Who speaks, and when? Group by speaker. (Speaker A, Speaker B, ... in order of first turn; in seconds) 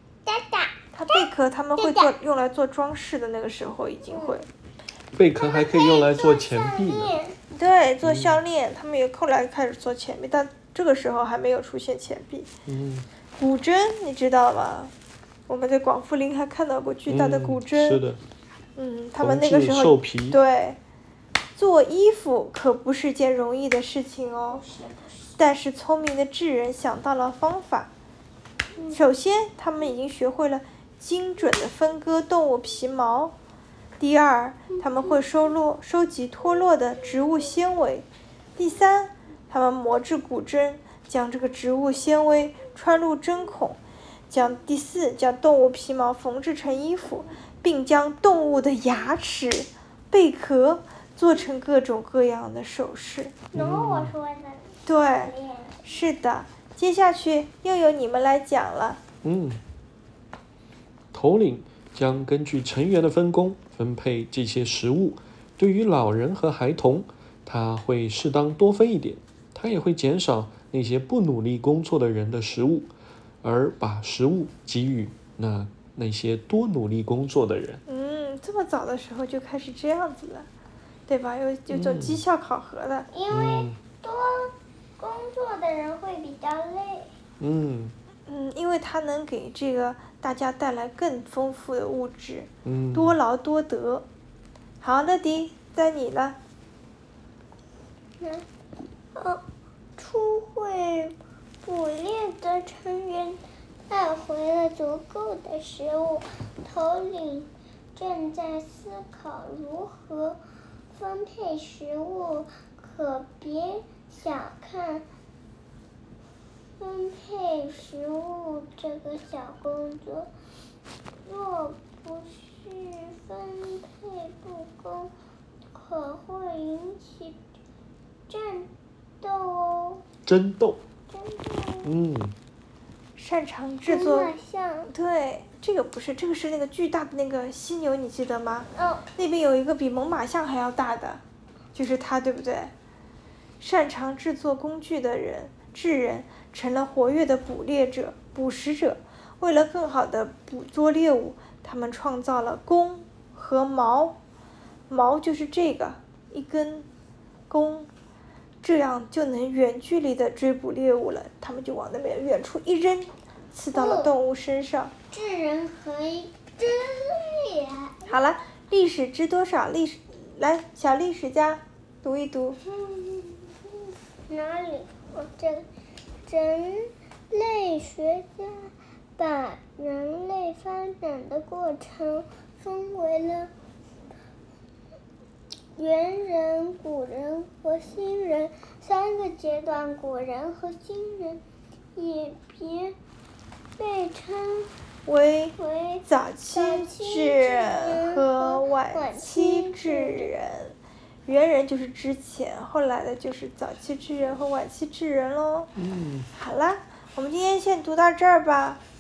Speaker A: 0.3-2.1, 4.1-4.4, 5.3-7.4, 24.5-25.4, 53.5-55.9, 83.1-87.1, 98.2-98.5, 99.2-99.4, 100.0-110.4, 110.9-115.1, 116.8-120.3, 121.2-125.1, 125.7-127.4, 128.3-128.7, 129.2-130.0, 131.1-131.9, 133.9-134.9, 138.8-139.1, 163.7-164.1, 165.1-168.2, 172.6-175.7, 176.3-183.5, 185.8-191.4, 192.0-193.0, 193.8-194.7, 195.6-200.3
Speaker B: 0.9-4.5, 7.5-12.5, 13.4-14.9, 15.5-18.0, 18.8-20.8, 21.6-24.6, 25.4-27.9, 28.9-33.4, 34.0-53.4, 54.9-55.3, 55.9-59.0, 77.9-80.5, 81.1-83.1, 88.3-94.1, 94.8-96.4, 133.2-134.3, 134.9-141.2, 141.7-142.7, 143.6-154.2, 154.9-156.9, 157.5-157.9, 158.6-164.9, 168.1-172.6, 195.1-205.7, 206.3-208.8
Speaker C: 5.1-7.1, 8.0-8.4, 12.7-13.1, 17.1-18.2, 19.2-20.4, 53.5-54.1, 59.2-59.6, 61.1-72.9, 73.4-77.8, 81.7-82.2, 83.3-83.8, 87.4-88.0, 92.7-93.2, 130.3-130.8, 131.8-132.3, 205.8-206.3